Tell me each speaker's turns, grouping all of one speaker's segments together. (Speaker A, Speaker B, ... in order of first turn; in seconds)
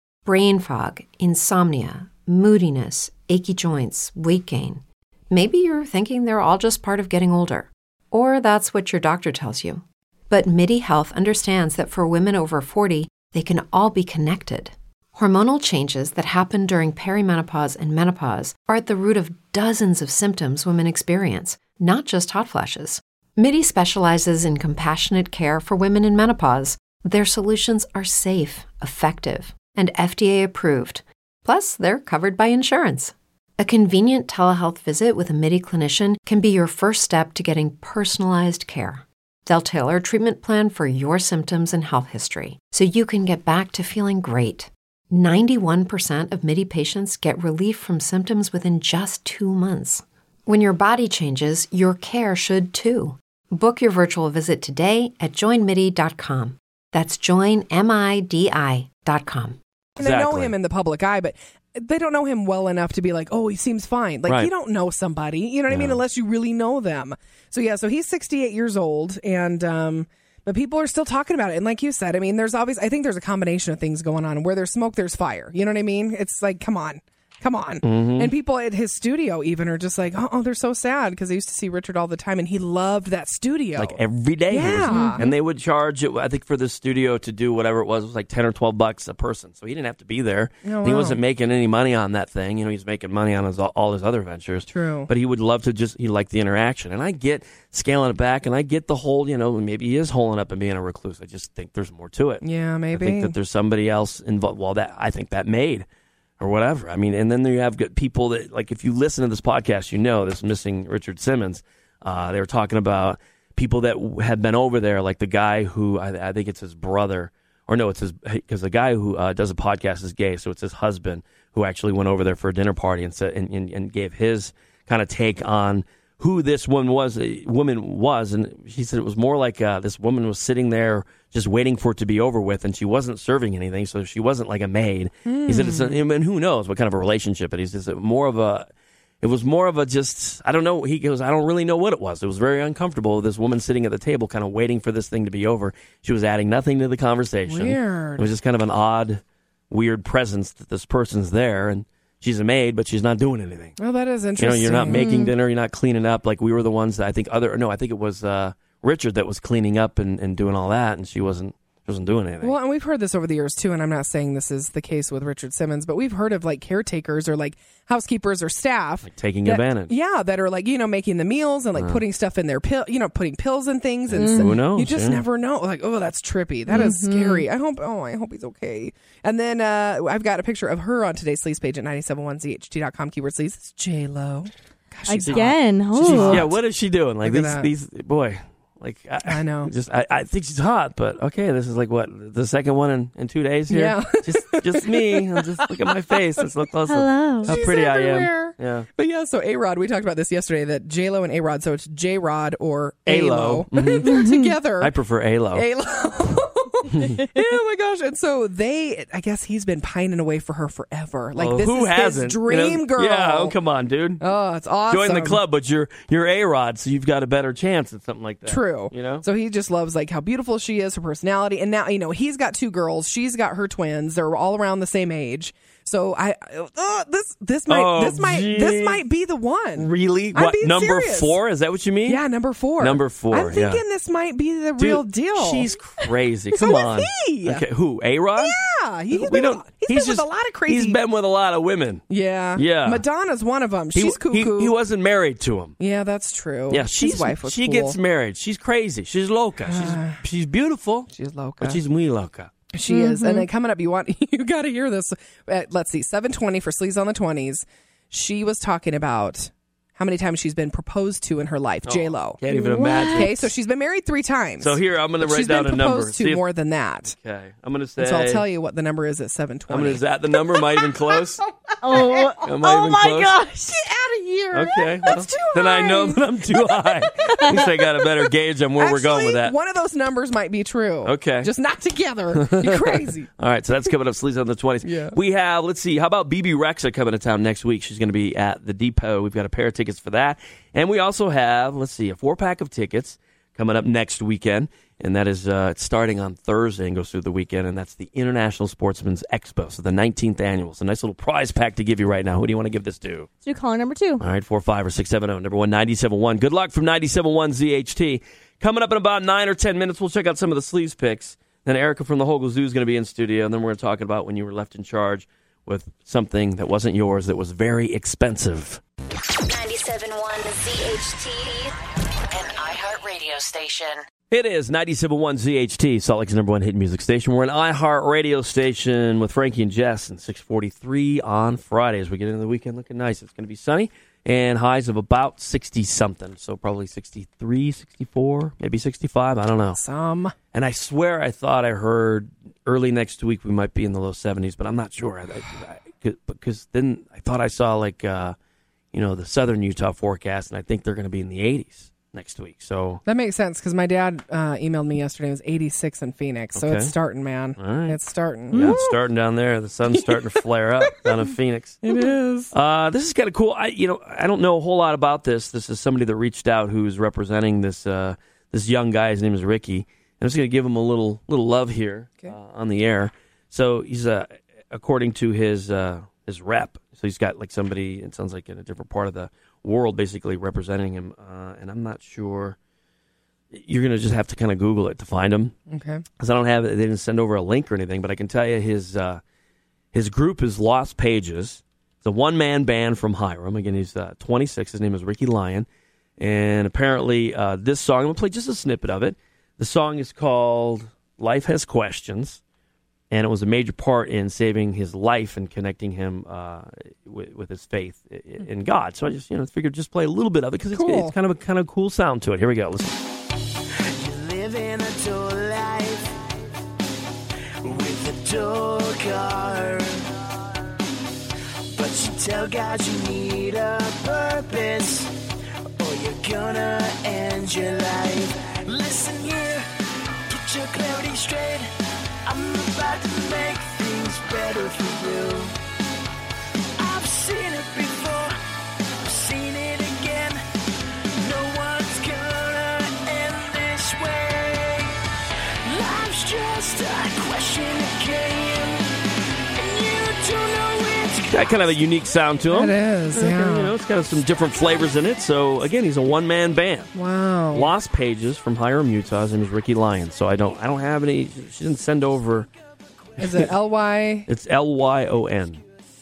Speaker A: 0.3-59.6
Speaker B: 60.0-85.3, 90.6-91.2, 94.7-95.1, 102.4-103.3, 135.3-136.0, 147.5-148.3, 153.8-155.1, 162.4-186.6, 187.2-187.7, 189.3-189.7, 193.7-195.4, 197.4-204.9, 205.6-213.6, 214.2-215.4, 218.5-231.4, 232.1-235.7, 236.6-237.6, 238.4-241.0, 242.1-244.7, 245.8-248.0, 249.7-250.2, 251.1-251.8, 252.7-262.4, 263.1-267.2, 268.0-271.2, 271.9-272.3, 273.7-276.2, 277.3-277.7, 278.8-283.3, 284.8-285.2, 339.8-340.3, 353.1-358.9, 359.9-360.2, 360.9-361.1, 361.8-362.5, 385.7-386.0, 410.7-411.1, 452.5-453.7, 456.9-457.7, 463.2-464.3
Speaker C: 60.0-60.5, 65.7-66.0, 77.8-78.3, 83.8-105.9, 106.4-138.7, 139.2-153.8, 154.4-162.6, 169.0-169.9, 171.8-172.0, 174.1-175.2, 185.3-198.9, 203.1-204.2, 204.8-205.7, 206.9-207.2, 211.4-214.2, 214.9-219.2, 227.7-229.0, 229.8-232.2, 232.8-233.8, 234.8-238.6, 239.1-242.0, 242.6-243.0, 243.9-245.8, 246.7-251.1, 251.6-252.5, 261.9-263.5, 264.6-266.4, 267.1-268.4, 269.7-271.4, 272.4-273.4, 274.5-279.5, 281.1-281.5, 282.4-303.3, 304.2-318.8, 324.3-339.8, 340.5-348.4, 348.9-353.0, 356.6-356.9, 357.6-358.0, 358.5-361.8, 362.5-382.6, 383.5-385.6, 386.2-389.2, 389.9-395.7, 396.2-402.4, 403.1-412.9, 451.3-456.9, 457.5-462.5, 464.3-465.6
Speaker D: 84.9-85.2, 154.9-155.3, 174.2-174.5, 176.7-177.5, 185.1-186.5, 196.9-197.6, 204.1-204.5, 252.9-253.5, 262.5-263.4, 271.8-273.8, 303.4-304.2, 358.5-358.8
Speaker E: 319.5-321.8, 322.3-324.0
Speaker F: 414.0-416.5, 417.6-420.1, 421.8-425.1, 425.8-429.7, 430.3-431.7, 432.2-435.5, 436.8-438.4, 439.0-440.4, 441.2-444.9, 445.7-448.9, 449.6-451.7